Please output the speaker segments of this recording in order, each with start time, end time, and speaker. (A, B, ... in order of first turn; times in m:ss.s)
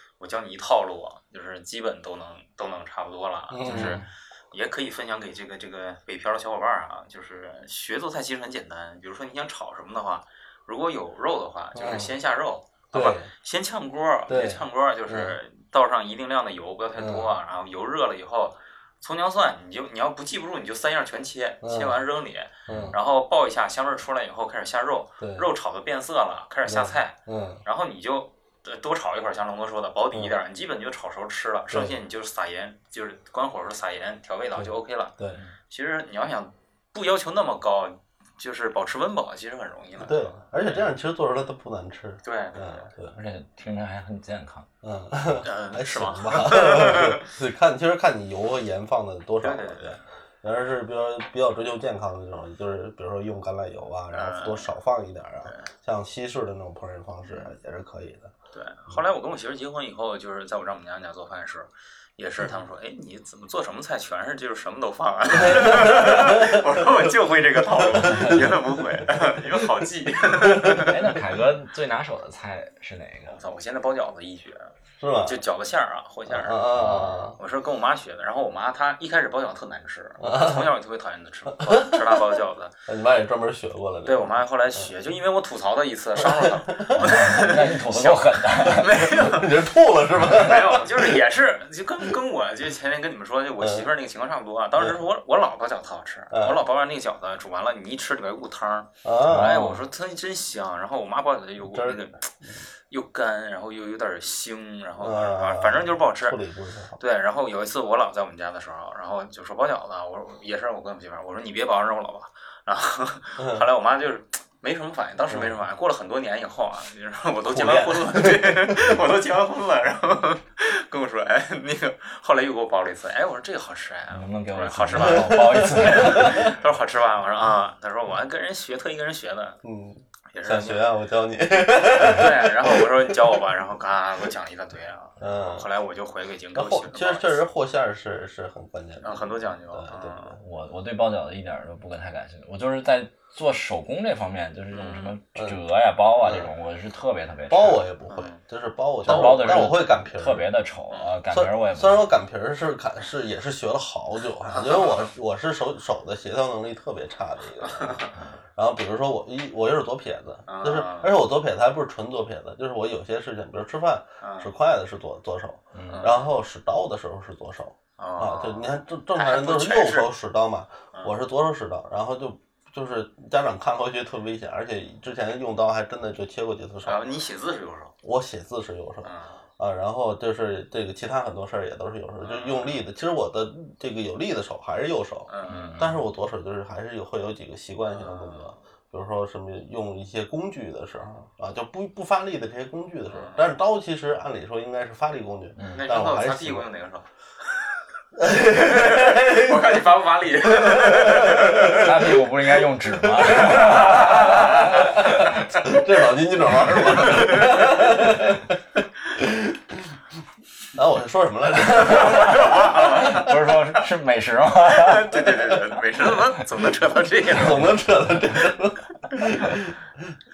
0:00.2-0:35.2 A
0:03.5-0:04.0 B
0:03.7-0:04.0 C
0:11.7-0:12.1 B
0:12.9-0:13.3 B
0:14.3-0:15.4 B
0:17.0-0:17.3 B
0:21.6-0:22.0 B
0:22.7-0:23.0 B
0:22.7-0:22.9 C
0:25.2-0:25.5 B
0:26.6-0:27.6 B
0:31.7-0:32.0 B
0:34.6-0:35.4 B
0:35.7-0:40.9 A
0:40.0-0:43.2 B
0:42.2-0:42.9 A
0:43.1-0:44.7 C
0:44.8-0:58.3 B
0:45.4-0:47.3 A
0:49.4-0:50.0 A
0:54.1-0:54.7 A
0:55.4-0:55.7 A
0:57.2-0:57.5 A
0:58.5-1:11.0 A
1:05.3-1:09.6 B
1:08.0-1:08.6 C
1:10.3-1:11.2 B
1:10.7-1:13.4 C
1:13.3-1:22.8 A
1:15.0-1:15.4 B
1:16.3-1:17.4 B
1:16.7-1:17.2 C
1:20.2-1:20.7 B
1:21.5-1:22.2 B
1:22.9-1:24.9 B
1:24.0-1:29.6 A
1:26.2-1:27.3 B
1:26.9-1:29.1 C
1:28.9-1:31.2 B
1:30.3-1:42.3 A
1:33.6-1:33.9 B
1:36.3-1:36.6 B
1:39.0-1:39.8 B
1:41.6-1:42.6 B
1:42.8-1:46.4 A
1:45.0-1:47.0 B
1:47.0-2:09.6 A
1:53.4-1:53.6 B
1:55.3-1:55.6 B
1:57.5-1:59.0 B
2:04.1-2:06.6 C
2:04.9-2:06.5 B
2:09.6-2:13.2 B
2:10.3-2:10.8 A
2:11.8-2:17.4 A
2:15.2-2:15.7 B
2:16.5-2:20.4 B
2:19.0-2:20.4 A
2:20.4-2:27.8 C
2:24.7-2:25.2 A
2:26.2-2:26.5 B
2:27.5-2:30.5 B
2:28.1-2:28.4 A
2:29.0-2:32.1 C
2:29.1-2:29.6 A
2:31.3-2:57.0 B
2:34.5-2:35.0 A
2:37.6-2:38.1 A
2:38.1-2:38.4 C
2:40.4-2:41.1 A
2:44.2-2:44.5 A
2:45.7-2:46.1 C
2:45.9-2:46.2 A
2:48.0-2:50.1 A
2:56.8-2:57.9 A
2:58.0-3:16.6 B
2:59.0-2:59.4 A
3:02.2-3:02.8 A
3:05.3-3:05.9 A
3:05.5-3:06.0 C
3:07.9-3:08.6 A
3:13.1-3:13.5 A
3:15.6-3:15.8 C
3:15.7-3:17.7 A
3:18.1-3:19.8 B
3:18.5-3:21.9 A
3:20.4-3:30.0 B
3:21.5-3:25.5 C
3:23.6-3:25.8 A
3:26.7-3:27.2 C
3:26.7-3:27.9 A
3:30.7-3:33.3 B
3:31.9-3:33.8 A
3:32.0-3:35.2 C
3:34.6-3:37.8 A
3:37.3-3:40.2 B
3:37.4-3:37.7 C